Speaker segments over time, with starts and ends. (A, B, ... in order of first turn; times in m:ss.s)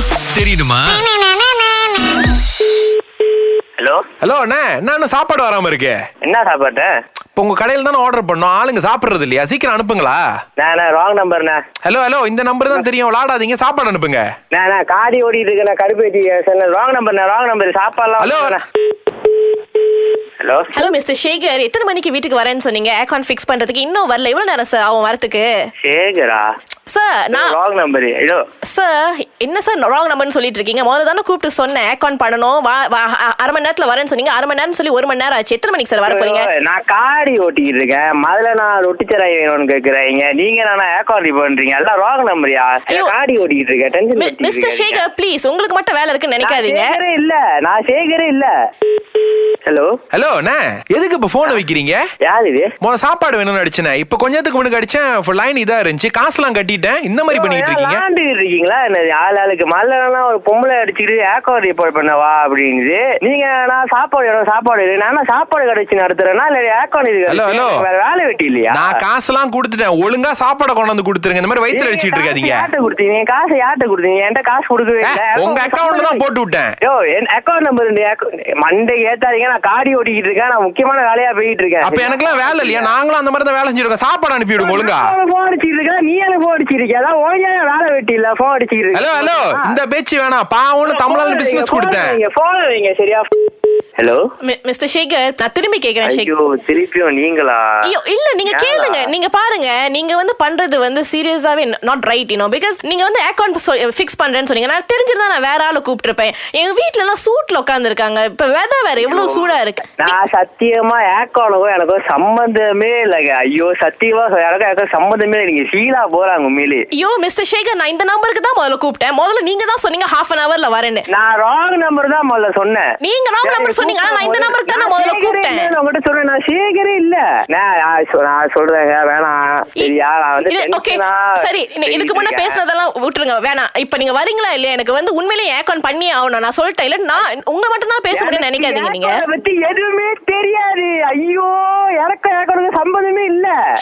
0:00.3-0:01.1 A
0:03.8-0:04.0 B
0:04.2-0:06.0 A
0:06.2-0:06.9 B
0:07.4-0:10.2 A
0:10.6-0:11.6 B
0:11.8-0:14.2 A
0:14.5-0:18.6 B
0:18.2-0:18.6 A
0:20.4-0:20.8 B
0:20.7-0:25.6 C
0:25.8-0:26.5 B
0:26.9-0:27.5 C
0:27.3-0:28.4 B
0:28.7-0:36.5 C
0:36.0-0:45.0 B
0:44.2-0:47.0 C
0:46.4-0:48.5 B
0:49.6-0:49.9 B
0:50.1-0:52.0 A
0:52.2-0:52.7 B
0:52.8-0:58.0 A
0:57.3-1:09.0 B
1:07.3-1:07.8 A
1:08.7-1:12.6 A
1:11.7-1:16.2 B
1:15.0-1:16.7 A
1:16.8-1:22.9 B
1:21.8-1:25.1 A
1:24.6-1:29.8 B
1:28.9-1:32.2 A
1:30.8-1:33.3 B
1:34.0-1:34.2 B
1:34.4-1:36.3 C
1:36.0-1:37.8 B
1:37.8-1:50.2 C
1:38.4-1:39.1 B
1:49.0-1:56.8 B
1:56.9-2:01.0 C
2:01.1-2:02.9 B
2:03.0-2:05.7 C
2:03.4-2:12.6 B
2:10.4-2:19.2 C
2:18.1-2:23.5 B